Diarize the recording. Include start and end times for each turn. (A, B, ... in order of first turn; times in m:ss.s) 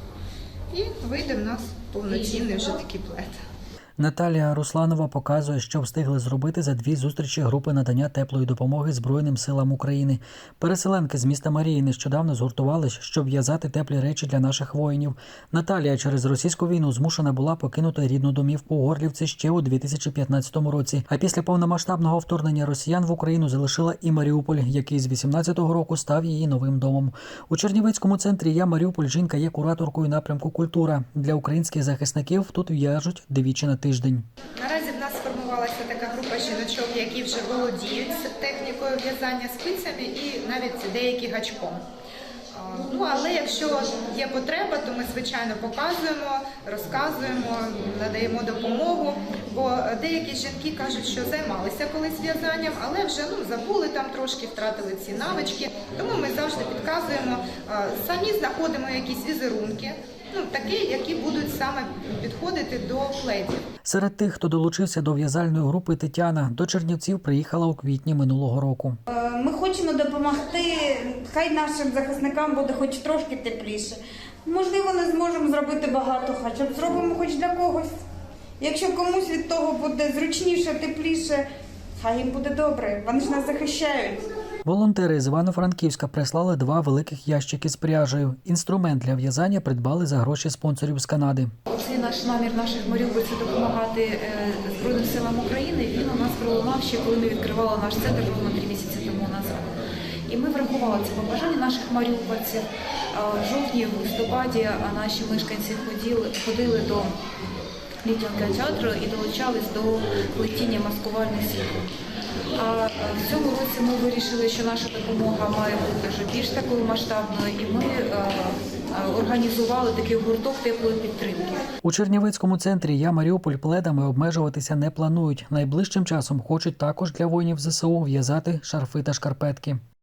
0:00.7-0:03.4 A
0:04.0-0:34.2 B
0:34.6-0:41.8 A
0:42.5-1:03.6 A
1:03.9-1:09.0 B
1:09.1-1:17.9 C
1:18.6-1:21.4 C
1:22.0-1:24.2 C
1:24.7-1:31.5 B
1:31.7-1:47.1 D
1:48.0-1:51.9 D
1:52.6-2:01.7 D
2:01.8-2:09.8 B